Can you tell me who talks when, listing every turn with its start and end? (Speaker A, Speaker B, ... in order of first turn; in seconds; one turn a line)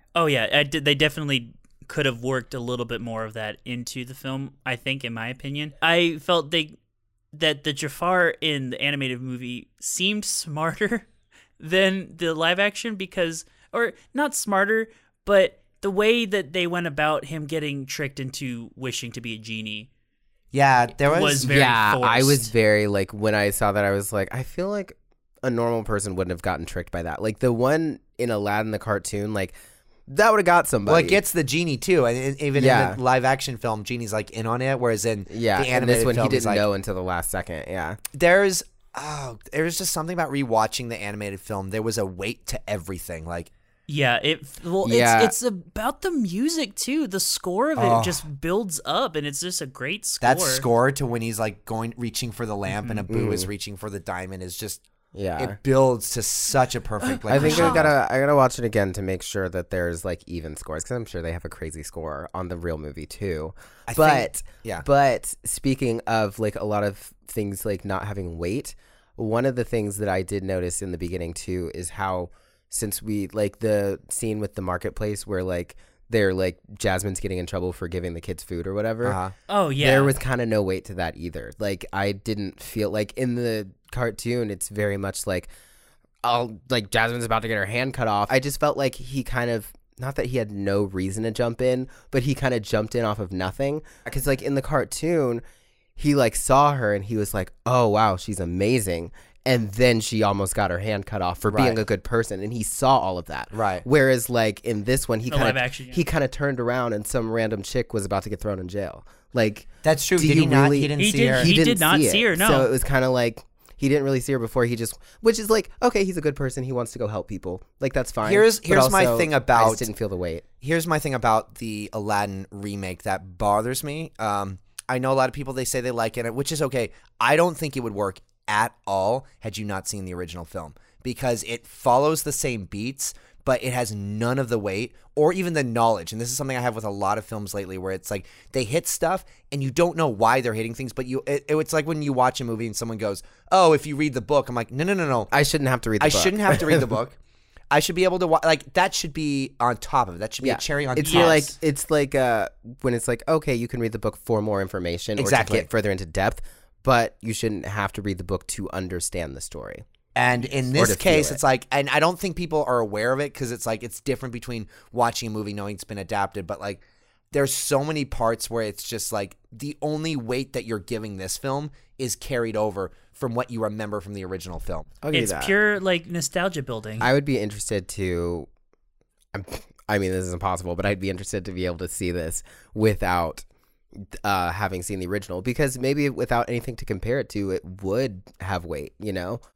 Speaker A: 0.1-6.7
Speaker A: 7.3-11.1
Speaker A: 11.6-19.9
Speaker B: 20.5-21.5
Speaker A: 21.0-22.5
Speaker C: 21.4-29.5
Speaker C: 30.1-31.2
Speaker B: 30.9-36.7
Speaker C: 32.6-33.0
Speaker C: 35.3-38.0
Speaker B: 38.1-43.5
Speaker A: 43.9-50.7
Speaker C: 44.8-45.3
Speaker B: 47.8-48.2
Speaker B: 50.2-54.8
Speaker A: 52.7-53.0
Speaker C: 53.1-53.5
Speaker C: 55.1-55.6
Speaker B: 55.4-57.9
Speaker A: 57.0-57.9
Speaker C: 57.3-79.2
Speaker B: 63.9-64.8
Speaker B: 79.0-79.3
Speaker A: 79.5-80.2
Speaker C: 79.8-85.5
Speaker C: 86.2-95.4
Speaker C: 96.0-120.4
Speaker B: 101.5-101.8
Speaker B: 103.5-103.9
Speaker A: 105.3-106.0
Speaker B: 109.8-111.5
Speaker A: 111.0-112.7
Speaker B: 118.2-119.9
Speaker B: 120.6-145.3
Speaker C: 145.3-146.9
Speaker B: 146.0-147.2
Speaker B: 147.7-151.6
Speaker C: 150.4-159.8
Speaker A: 151.0-151.5
Speaker B: 155.2-155.7
Speaker B: 160.2-174.9
Speaker C: 160.7-161.4
Speaker C: 175.0-175.5
Speaker A: 175.1-177.1
Speaker C: 177.0-178.5
Speaker C: 179.3-183.4
Speaker C: 184.0-189.4